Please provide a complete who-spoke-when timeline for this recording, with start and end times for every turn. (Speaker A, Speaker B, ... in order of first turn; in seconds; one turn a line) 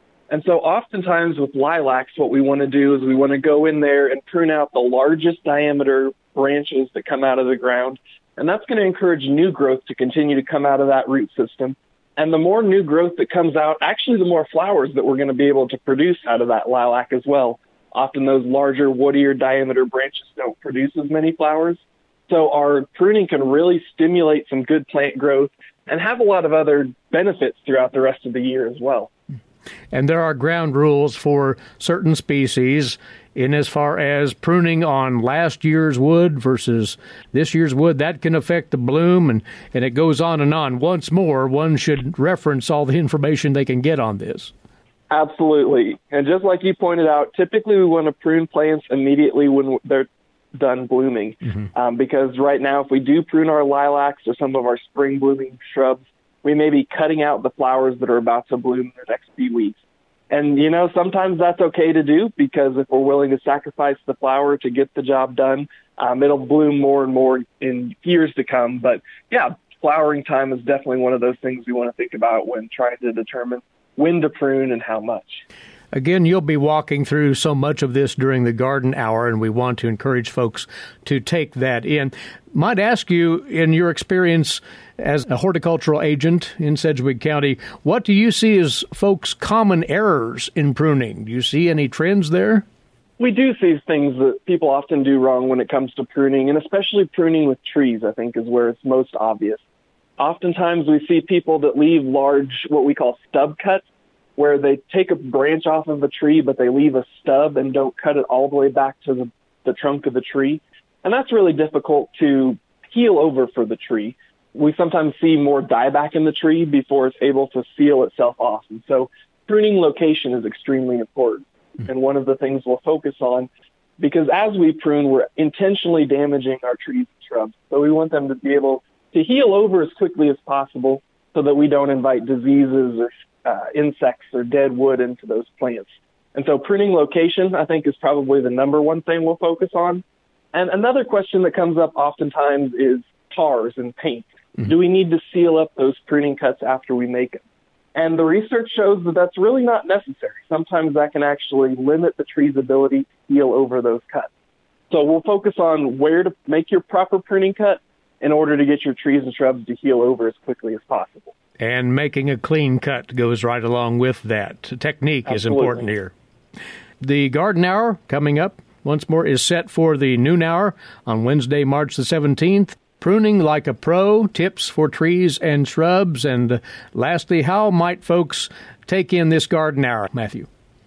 Speaker A: 0.3-29.1
Speaker B: 29.9-44.5
Speaker A: 45.1-59.8
Speaker A: 60.3-75.4
Speaker B: 75.9-92.6
Speaker A: 93.2-99.6
Speaker A: 100.2-103.8
Speaker A: 104.4-140.0
Speaker A: 140.5-147.4
Speaker A: 147.9-154.3
Speaker A: 154.9-161.3
Speaker B: 161.6-166.1
Speaker A: 165.3-165.8
Speaker B: 167.0-180.5